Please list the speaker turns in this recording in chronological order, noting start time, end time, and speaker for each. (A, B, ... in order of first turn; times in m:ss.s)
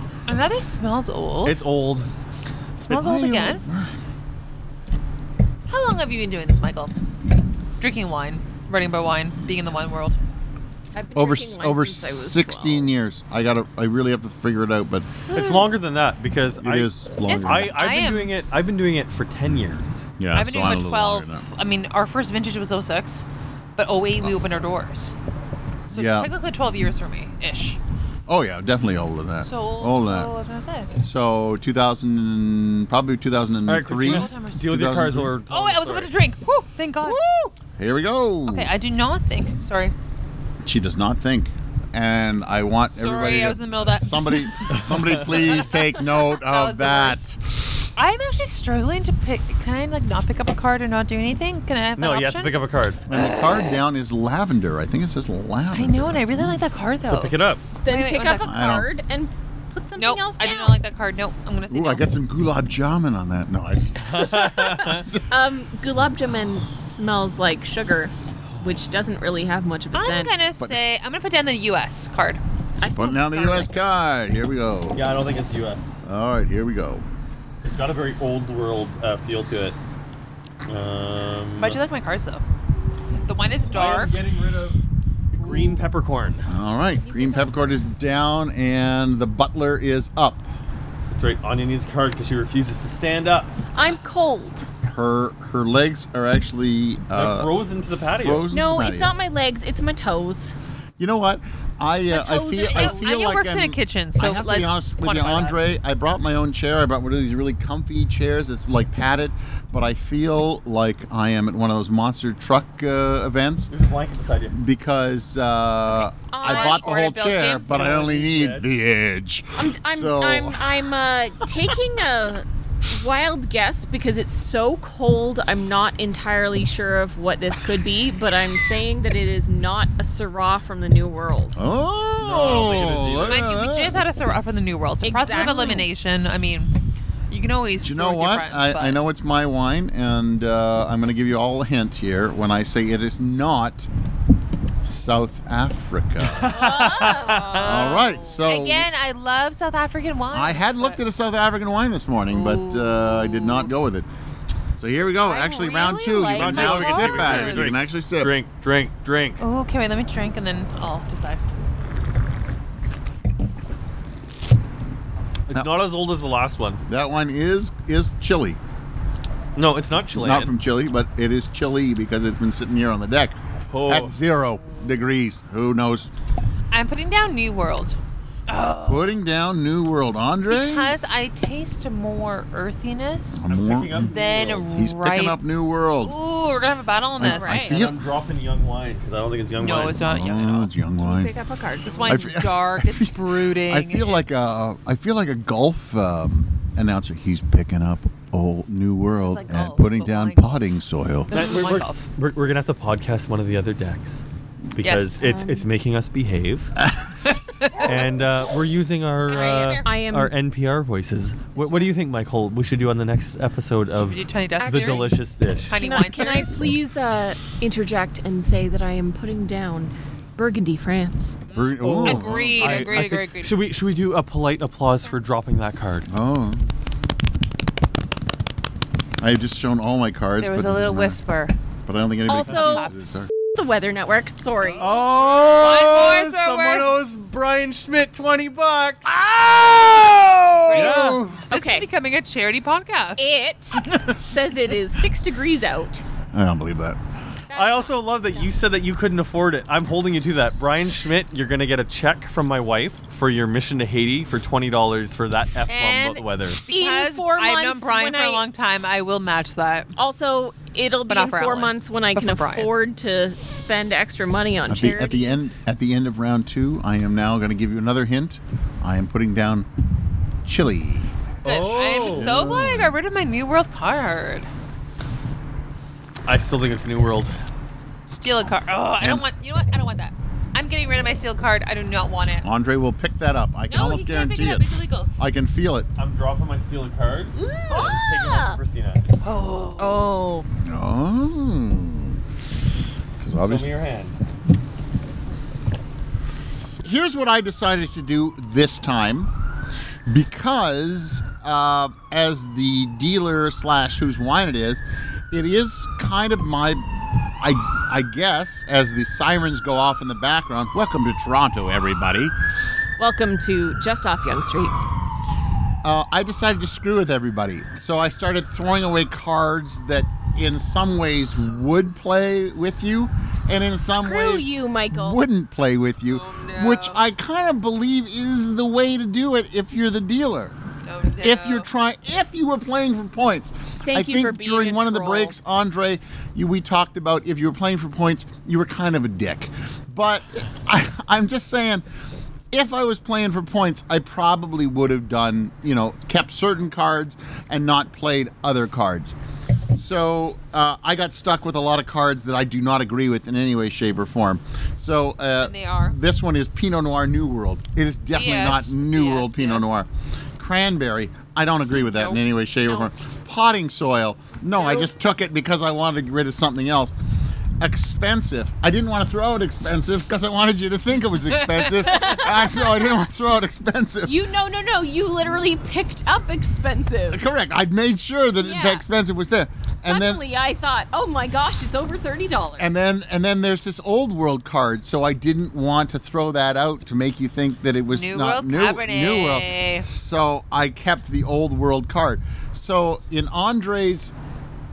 0:00.3-0:01.6 A
0:01.4-0:02.1 B
0:02.8-0:03.6 A
0:02.9-0:03.9 C
0:05.7-0:06.9 A
0:07.8-0:10.2 A
0:10.9-0:12.9 D
0:11.2-0:15.1 C
0:15.3-0:15.7 A
0:15.3-0:20.1 B
0:16.6-0:17.7 C
0:17.3-0:18.3 A
0:20.2-0:21.5 C
0:20.3-0:25.1 A
0:25.9-0:27.8 A
0:25.9-0:26.3 C
0:28.3-0:30.3 C
0:29.4-0:30.9 A
0:31.0-0:35.3 C
0:33.7-0:36.1 B
0:34.0-0:34.7 A
0:35.5-0:37.2 A
0:37.8-0:38.7 C
0:38.5-0:39.9 A
0:40.6-0:47.5 C
0:42.9-0:44.5 A
0:44.7-0:45.7 B
0:46.3-0:47.2 A
0:48.0-0:52.5 A
0:52.0-0:53.0 B
0:53.1-0:56.6 C
0:53.1-0:53.8 A
0:55.7-0:58.6 A
0:57.0-0:57.6 B
0:57.8-1:00.8 D
0:58.4-0:58.9 C
1:00.0-1:02.1 A
1:01.7-1:05.3 C
1:04.0-1:05.1 B
1:05.3-1:10.4 D
1:09.9-1:12.4 A
1:12.8-1:13.7 D
1:13.0-1:15.1 C
1:14.9-1:16.0 B
1:16.0-1:17.0 C
1:17.6-1:19.8 B
1:20.7-1:21.8 B
1:21.6-1:22.4 A
1:23.2-1:24.2 A
1:23.7-1:24.8 B
1:25.3-1:26.5 B
1:25.4-1:25.8 A
1:26.5-1:30.5 C
1:27.0-1:27.5 D
1:31.1-1:33.5 B
1:33.7-1:34.7 D
1:34.8-1:37.5 C
1:37.1-1:38.5 B
1:38.2-1:39.1 C
1:38.5-1:40.6 D
1:41.0-1:53.7 C
1:42.1-1:45.6 A
1:42.6-1:43.0 D
1:53.7-1:54.6 B
1:54.5-2:00.9 C
1:56.3-1:57.0 D
1:56.4-1:58.2 A
1:57.7-1:58.7 B
1:59.6-2:11.6 D
2:11.6-2:14.0 C
2:12.2-2:13.5 B
2:13.2-2:16.7 A
2:15.0-2:15.9 D
2:15.3-2:15.7 C
2:17.3-2:19.0 A
2:17.8-2:23.9 C
2:24.8-2:27.0 C
2:26.2-2:28.1 B
2:26.5-2:28.0 D
2:27.6-2:28.9 C
2:27.8-2:31.0 A
2:30.3-2:34.1 C
2:32.3-2:33.7 A
2:34.8-2:38.3 C
2:35.2-2:37.8 A
2:36.3-2:39.4 B
2:39.4-2:41.5 A
2:45.5-2:46.8 B
2:46.9-2:48.6 C
2:49.6-2:50.5 B
2:50.1-2:53.4 C
2:53.7-2:54.2 B
2:53.9-2:56.1 C
2:56.7-2:58.0 A
2:58.5-2:59.2 A
2:58.8-3:01.0 C
3:00.5-3:03.4 A
3:03.3-3:04.1 C
3:03.5-3:04.8 B
3:04.1-3:05.4 A
3:04.7-3:06.1 C
3:06.0-3:07.7 A
3:07.2-3:08.0 C
3:07.2-3:07.8 D
3:07.4-3:10.7 B
3:09.6-3:10.4 A
3:10.1-3:11.3 C
3:11.0-3:12.3 D
3:11.8-3:14.5 A
3:12.1-3:21.4 C
3:19.2-3:20.7 A
3:21.3-3:22.0 A
3:21.3-3:24.2 B
3:24.8-3:26.7 B
3:24.8-3:25.3 A
3:25.2-3:25.7 D
3:27.3-3:27.9 A
3:27.8-3:35.8 B
3:29.3-3:29.9 A
3:29.8-3:30.3 D
3:31.6-3:31.9 A
3:34.0-3:36.5 A
3:34.6-3:35.2 D
3:35.8-3:41.5 D
3:41.5-3:43.6 A
3:41.5-3:43.1 C
3:41.8-3:46.1 B
3:46.1-3:46.6 C
3:49.2-3:51.2 C
3:50.4-3:51.6 A
3:51.9-3:53.3 C
3:52.3-3:52.9 D
3:52.5-3:52.9 A
3:53.4-3:55.0 D
3:54.6-3:56.9 A
3:54.8-3:59.2 B
3:59.0-4:01.5 C
4:00.7-4:03.3 A
4:00.7-4:01.2 B
4:01.0-4:01.9 D
4:03.2-4:06.0 D
4:06.3-4:07.0 C
4:07.5-4:08.5 D
4:07.5-4:16.6 B
4:15.7-4:19.9 A
4:16.7-4:18.5 D
4:20.0-4:25.6 D
4:21.1-4:22.7 A
4:24.7-4:29.7 C
4:30.4-4:33.0 C
4:31.4-4:32.3 B
4:31.4-4:34.5 A
4:36.3-4:37.4 B
4:38.1-4:42.5 A
4:39.0-4:39.3 C
4:42.4-4:45.9 C
4:43.7-4:45.1 A
4:46.0-4:49.1 B
4:47.4-4:48.6 D
4:49.2-4:50.4 A
4:50.1-4:50.4 D
4:50.6-4:52.2 C
4:53.2-4:53.7 C
4:53.3-4:54.2 B
4:56.8-4:59.3 C
5:00.1-5:06.8 C
5:07.4-5:12.3 C
5:13.0-5:14.8 D
5:15.8-5:30.6 C
5:23.9-5:25.2 D
5:26.1-5:27.0 A
5:30.9-5:31.7 A
5:31.2-5:41.8 C
5:33.8-5:35.4 D
5:42.5-5:49.2 C
5:49.7-6:06.9 C
5:55.4-5:56.0 A
5:58.1-5:59.8 A
6:01.8-6:02.2 A
6:02.6-6:02.9 D
6:04.6-6:04.9 D
6:07.6-6:14.2 C
6:11.8-6:13.0 D
6:14.1-6:17.2 D
6:17.1-6:20.2 C
6:18.4-6:18.8 D
6:19.8-6:22.7 D
6:22.6-6:34.1 C
6:27.9-6:29.9 A